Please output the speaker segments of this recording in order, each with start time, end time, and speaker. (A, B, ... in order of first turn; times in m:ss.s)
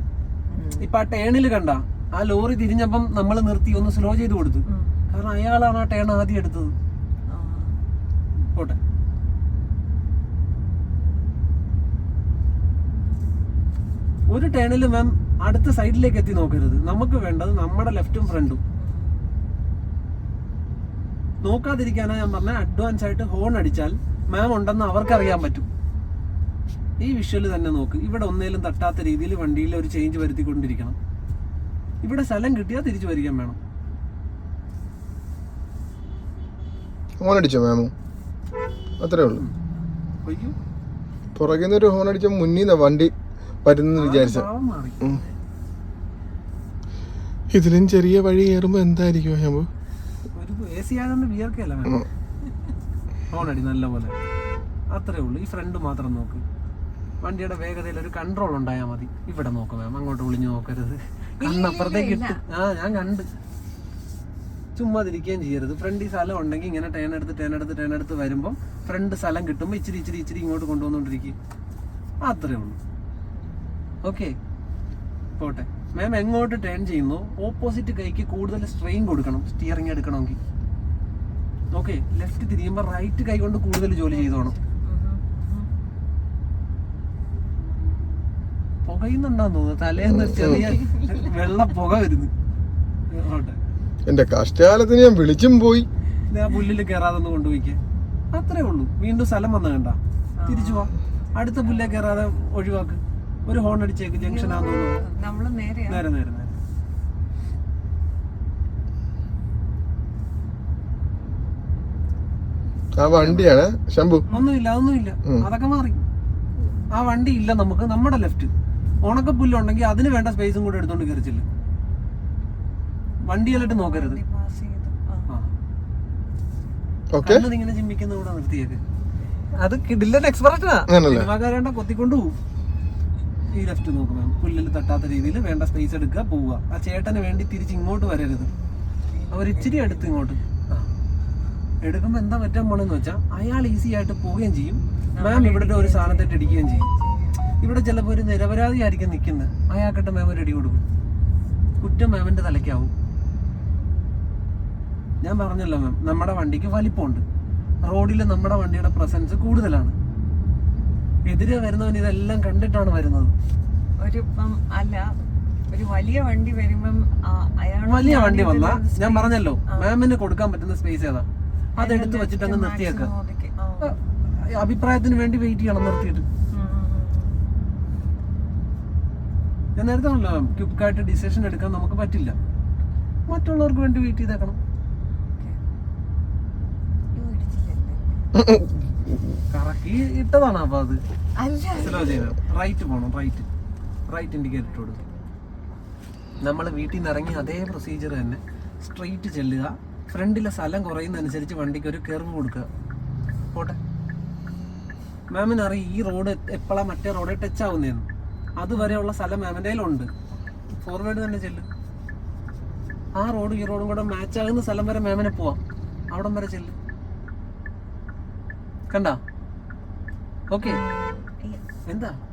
0:00.5-0:00.8 A
0:00.7-0:06.7 B
0:04.7-0:05.0 A
0:07.3-0:07.8 A
0:08.5-0:08.8 B
0:14.3-0:18.6 B
0:18.8-0:19.3 A
0:21.4-0:25.7 B
0:27.0-0:31.0 B
0:32.0-0:33.6 B
0:37.2-0:37.9 C
0:39.0-0:39.4 C
0:40.2-0:40.6 B
0:41.4-0:44.5 C
0:43.9-0:45.1 B
0:45.0-0:45.4 A
0:47.5-0:49.7 C
0:50.4-0:52.1 B
0:53.3-0:54.2 B
0:54.9-0:56.4 B
0:57.2-1:03.3 B
1:01.4-1:02.4 A
1:04.8-1:11.4 B
1:12.2-1:12.8 B
1:13.3-1:14.0 A
1:14.0-1:14.4 B
1:15.4-1:20.4 B
1:21.7-1:24.6 B
1:24.1-1:25.7 A
1:28.9-1:32.3 B
1:30.1-1:30.6 C
1:30.5-1:31.3 A
1:33.1-1:33.6 B
1:34.1-1:35.9 C
1:36.3-1:37.8 B
1:38.3-1:45.0 B
1:40.4-1:42.4 A
1:44.1-1:46.0 A
1:45.9-1:46.6 B
1:53.0-1:54.2 C
1:53.0-1:53.5 B
1:54.3-1:54.6 A
1:54.3-1:56.0 B
1:56.9-1:58.5 B
1:59.0-2:01.5 B
1:59.1-1:59.4 A
2:03.3-2:04.2 B
2:03.5-2:05.3 A
2:05.3-2:05.5 B
2:07.1-2:07.5 C
2:07.2-2:08.8 B
2:09.6-2:12.4 B
2:10.9-2:11.3 C
2:13.5-2:18.5 B
2:18.5-2:20.2 A
2:19.3-2:20.9 B
2:21.8-2:26.9 B
2:25.2-2:27.4 A
2:27.6-2:30.8 B
2:31.8-2:32.9 B
2:35.2-2:37.2 B
2:37.8-2:40.0 B
2:41.3-2:43.3 B
2:44.0-2:45.2 A
2:45.7-2:49.9 A
2:47.8-2:51.3 B
2:51.8-2:54.0 A
2:51.8-2:53.1 B
2:53.8-2:56.2 B
2:56.5-2:57.4 A
2:59.8-3:02.4 B
3:03.3-3:04.6 B
3:05.3-3:05.6 A
3:07.2-3:08.3 A
3:09.5-3:11.0 B
3:11.4-3:12.4 A
3:11.8-3:13.5 B
3:14.1-3:15.0 B
3:14.2-3:15.4 A
3:16.4-3:22.7 B
3:25.3-3:28.1 B
3:28.6-3:30.1 B
3:28.7-3:29.0 A
3:30.8-3:31.7 B
3:33.2-3:35.6 B
3:36.1-3:36.8 B
3:38.9-3:39.2 B
3:40.5-3:40.8 B
3:40.6-3:41.6 A
3:41.9-3:42.2 B